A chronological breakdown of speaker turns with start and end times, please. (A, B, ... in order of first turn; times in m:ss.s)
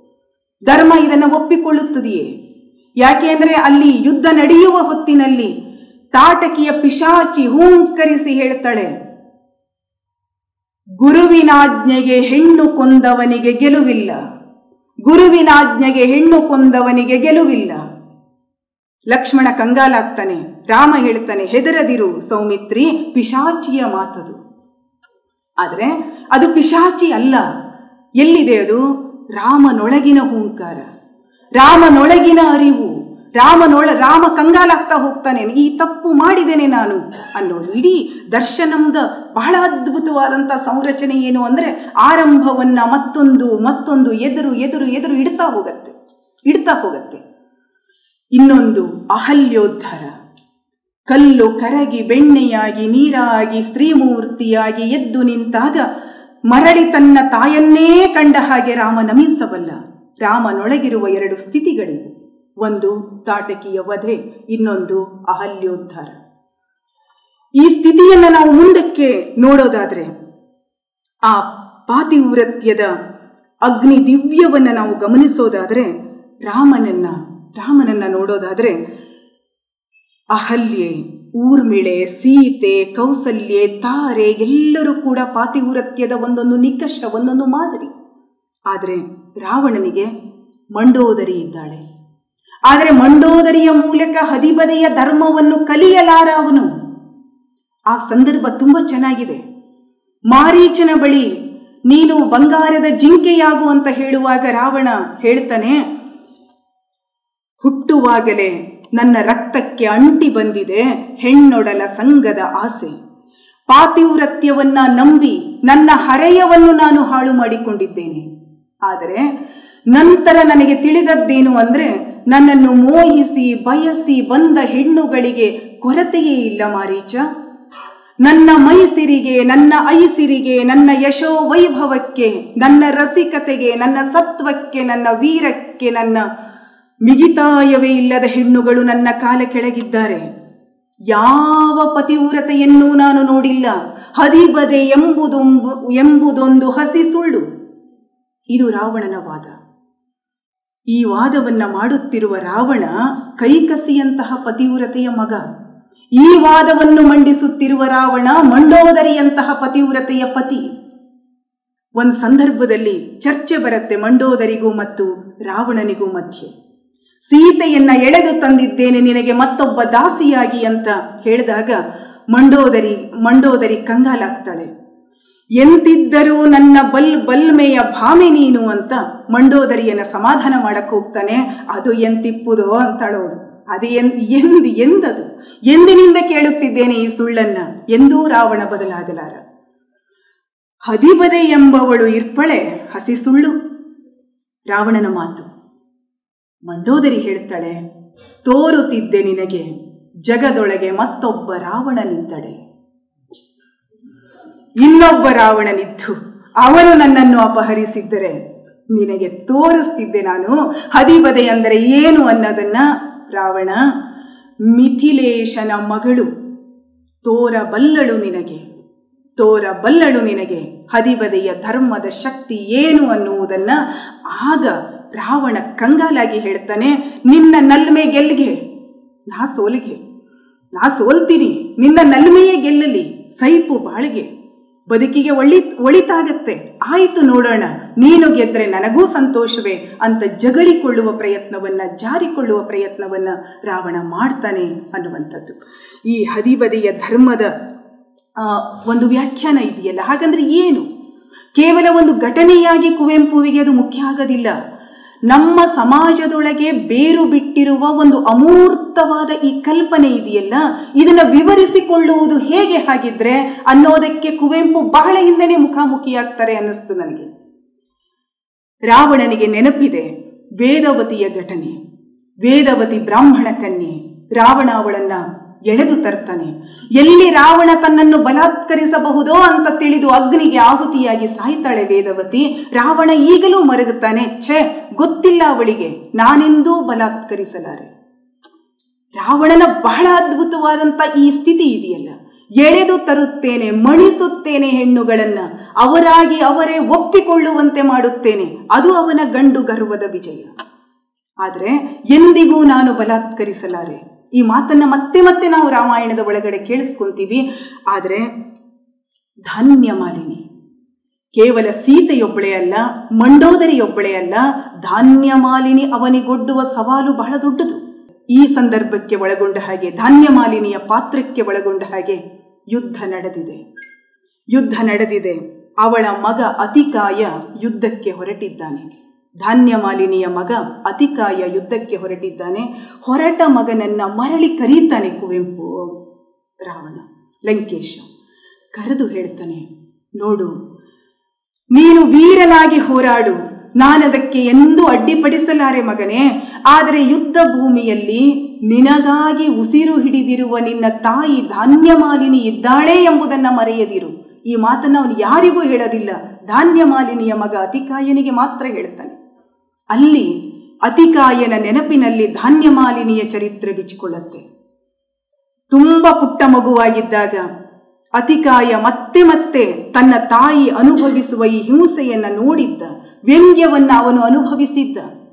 0:00.7-0:02.3 A
0:03.0-0:05.5 A
0:06.1-0:08.9 A
0:11.0-0:14.2 A
0:15.0-0:17.8 A
0:19.1-0:24.4 A
0:25.6-0:27.4 A
0:28.2-0:28.8 A
0:29.3-0:30.9 A
0:31.6-0:46.0 A
0:46.5-0:47.2 A
0:48.4-0:50.1 A
0:51.1-0:55.8 A
0:56.5-1:06.2 A
1:07.6-1:10.1 A
1:11.3-1:12.9 A
1:13.6-1:15.9 A
1:16.4-1:18.8 A
1:20.3-1:27.9 A
1:28.7-1:30.1 A
1:30.8-1:31.8 A
1:32.7-1:36.7 A
1:37.9-1:39.4 A
1:40.3-1:41.3 A
1:41.9-1:45.8 A
1:47.6-1:52.9 A
1:53.7-1:58.2 A
1:58.9-1:59.2 A
1:59.9-2:07.2 A
2:08.2-2:16.2 A
2:17.0-2:20.2 A
2:21.1-2:27.4 A
2:28.5-2:29.5 A
2:30.9-2:35.4 A
2:36.2-2:40.7 A
2:42.0-2:46.5 A
2:47.3-2:51.8 A
2:52.3-2:54.7 A
2:55.6-3:09.4 A
3:10.9-3:13.5 A
3:14.7-3:15.5 A
3:16.7-3:17.8 A
3:18.4-3:19.7 A
3:20.2-3:22.6 A
3:24.8-3:28.4 A
3:28.9-3:33.8 A
3:34.7-3:36.3 A
3:37.2-3:38.6 A
3:39.4-3:48.6 A
3:49.3-3:50.0 A
3:50.8-3:54.3 A
3:54.9-4:07.5 A
4:08.4-4:10.8 A
4:11.6-4:14.6 A
4:15.3-4:27.3 A
4:28.9-4:30.1 A
4:30.6-4:31.7 A
4:32.4-4:47.9 A
4:49.2-5:00.5 A
5:01.4-5:08.3 A
5:09.5-5:10.4 A
5:11.3-5:17.8 A
5:18.3-5:22.2 A
5:22.7-5:23.6 A
5:24.5-5:28.9 A
5:29.4-5:35.9 A
5:36.6-5:38.0 A
5:38.7-5:39.6 A
5:40.2-5:40.5 A
5:41.7-5:59.2 A
5:59.9-6:00.3 A
6:00.8-6:04.4 A
6:05.7-6:07.4 A
6:08.2-6:15.0 A